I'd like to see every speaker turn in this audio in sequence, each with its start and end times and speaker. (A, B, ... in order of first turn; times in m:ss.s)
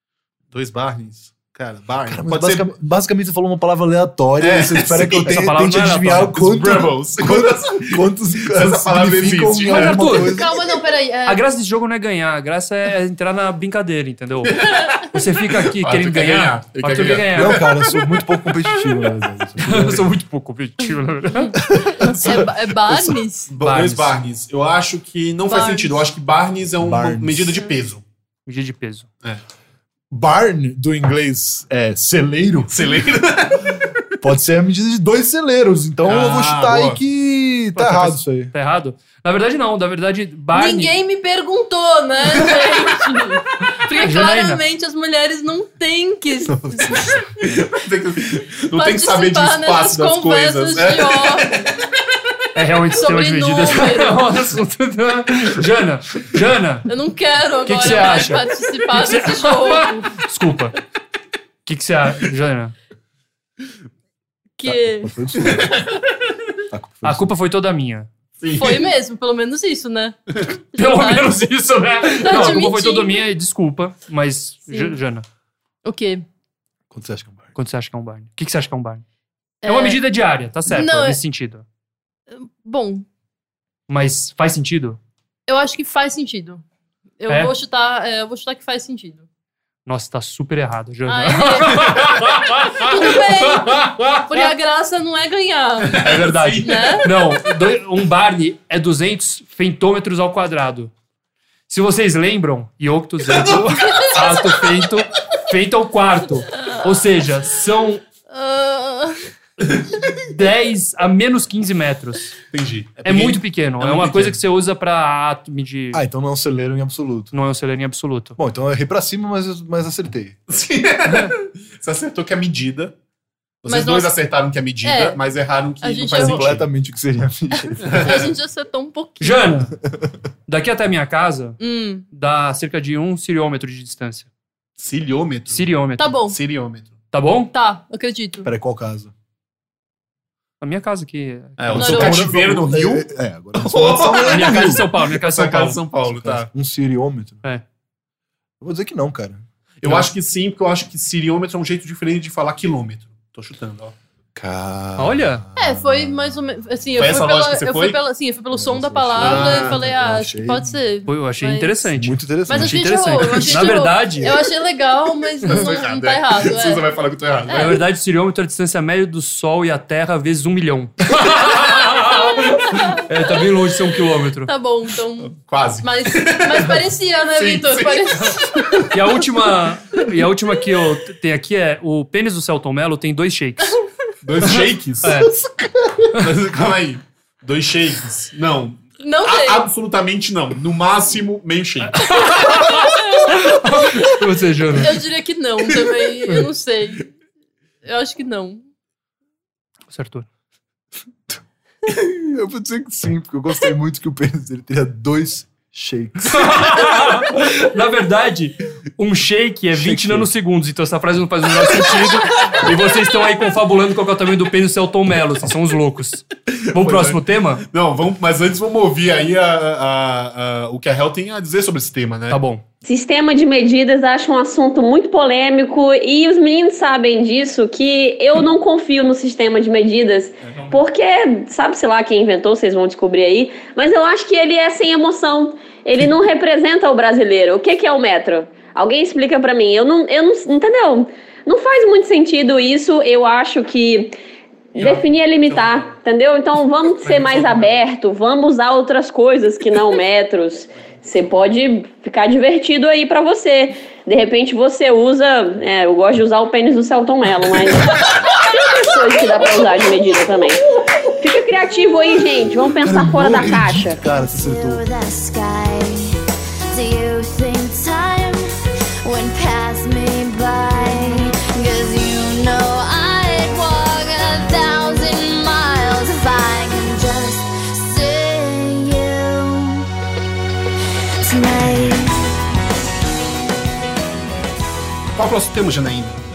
0:00.5-0:02.7 A
0:02.0-0:10.7 B
0:04.4-0:05.3 A
0:05.2-0:06.4 C
0:06.3-0:10.2 A
0:09.7-0:10.3 C
0:10.3-0:11.4 D
0:11.2-0:17.7 C
0:14.4-0:15.0 A
0:15.7-0:17.7 A
0:17.3-0:20.1 B
0:19.6-0:21.5 C
0:21.3-0:23.5 D
0:21.6-0:23.2 B
0:22.1-0:22.4 A
0:23.5-0:28.0 A
0:23.6-0:24.2 C
0:25.5-0:26.0 D
0:26.8-0:27.6 B
0:28.4-0:29.1 C
0:30.1-0:32.9 B
0:32.7-0:34.0 A
0:34.2-0:38.5 B
0:36.0-0:37.0 A
0:37.7-0:41.0 C
0:40.5-0:47.3 D
0:44.0-0:44.6 C
0:46.6-0:47.1 B
0:47.4-0:51.6 A
0:48.7-0:51.7 D
0:52.5-0:56.9 C
0:52.9-0:54.2 D
0:56.8-1:00.1 D
0:57.6-1:00.7 C
1:01.6-1:02.7 C
1:04.6-1:05.2 D
1:04.6-1:05.8 B
1:05.4-1:05.8 A
1:06.7-1:07.3 B
1:07.0-1:08.1 C
1:08.4-1:08.9 A
1:08.6-1:10.2 D
1:10.7-1:11.4 D
1:10.8-1:15.2 C
1:12.0-1:13.2 D
1:14.7-1:15.0 D
1:15.8-1:16.2 D
1:16.9-1:17.5 B
1:17.5-1:19.0 C
1:19.6-1:20.0 D
1:19.6-1:21.6 C
1:20.7-1:21.2 D
1:22.3-1:23.0 D
1:23.9-1:25.0 C
1:25.5-1:26.6 D
1:27.2-1:29.2 D
1:29.8-1:34.5 C
1:31.1-1:32.2 D
1:32.7-1:36.0 D
1:35.8-1:37.1 A
1:36.0-1:40.9 C
1:36.6-1:37.1 D
1:41.7-1:48.0 C
1:48.3-1:49.3 D
1:50.2-1:52.3 C
1:52.5-1:54.4 A
1:53.0-1:56.0 C
1:55.9-1:57.3 B
1:57.3-1:58.4 C
1:58.4-2:00.4 B
2:00.5-2:02.9 A
2:01.1-2:01.3 C
2:03.6-2:06.6 A
2:03.7-2:04.1 D
2:04.8-2:05.2 D
2:05.8-2:06.5 D
2:06.1-2:08.1 B
2:07.6-2:09.6 D
2:07.8-2:08.3 A
2:09.2-2:09.7 C
2:09.9-2:10.1 B
2:10.5-2:11.6 C
2:11.6-2:12.0 D
2:12.1-2:14.3 C
2:14.8-2:15.7 A
2:15.5-2:16.1 C
2:16.0-2:16.4 D
2:16.3-2:16.9 A
2:17.1-2:17.5 C
2:17.5-2:18.5 D
2:18.4-2:19.1 B
2:20.6-2:22.0 C
2:21.6-2:26.5 A
2:21.7-2:24.9 B
2:21.8-2:22.3 D
2:24.2-2:25.8 C
2:26.1-2:27.4 B
2:28.6-2:29.4 B
2:29.8-2:33.9 A
2:34.3-2:36.6 B
2:35.0-2:35.4 C
2:35.6-2:41.9 D
2:37.0-2:38.0 A
2:38.5-2:40.8 B
2:39.2-2:39.8 A
2:41.1-2:44.3 C
2:42.0-2:43.6 B
2:42.5-2:46.8 D
2:45.4-2:47.8 A
2:47.5-2:47.8 D
2:47.5-2:54.5 C
2:54.4-2:58.9 D
2:55.3-2:58.7 A
2:58.9-3:03.8 C
3:04.2-3:05.2 A
3:04.4-3:05.3 C
3:06.1-3:12.2 A
3:09.0-3:09.6 D
3:11.9-3:15.0 C
3:12.7-3:13.4 D
3:14.7-3:17.1 D
3:17.8-3:18.6 D
3:19.9-3:20.2 C
3:21.8-3:27.0 B
3:26.2-3:37.6 C
3:29.7-3:30.3 B
3:36.6-3:42.4 A
3:42.3-3:42.6 C
3:42.8-4:04.1 E
4:04.7-4:20.6 E
4:04.8-4:05.9 C
4:07.0-4:07.8 C
4:21.2-4:24.0 E
4:22.8-4:24.8 B
4:24.0-4:26.2 F
4:26.7-4:28.4 F
4:29.0-4:39.8 F
4:41.2-4:42.3 F
4:45.1-4:46.2 A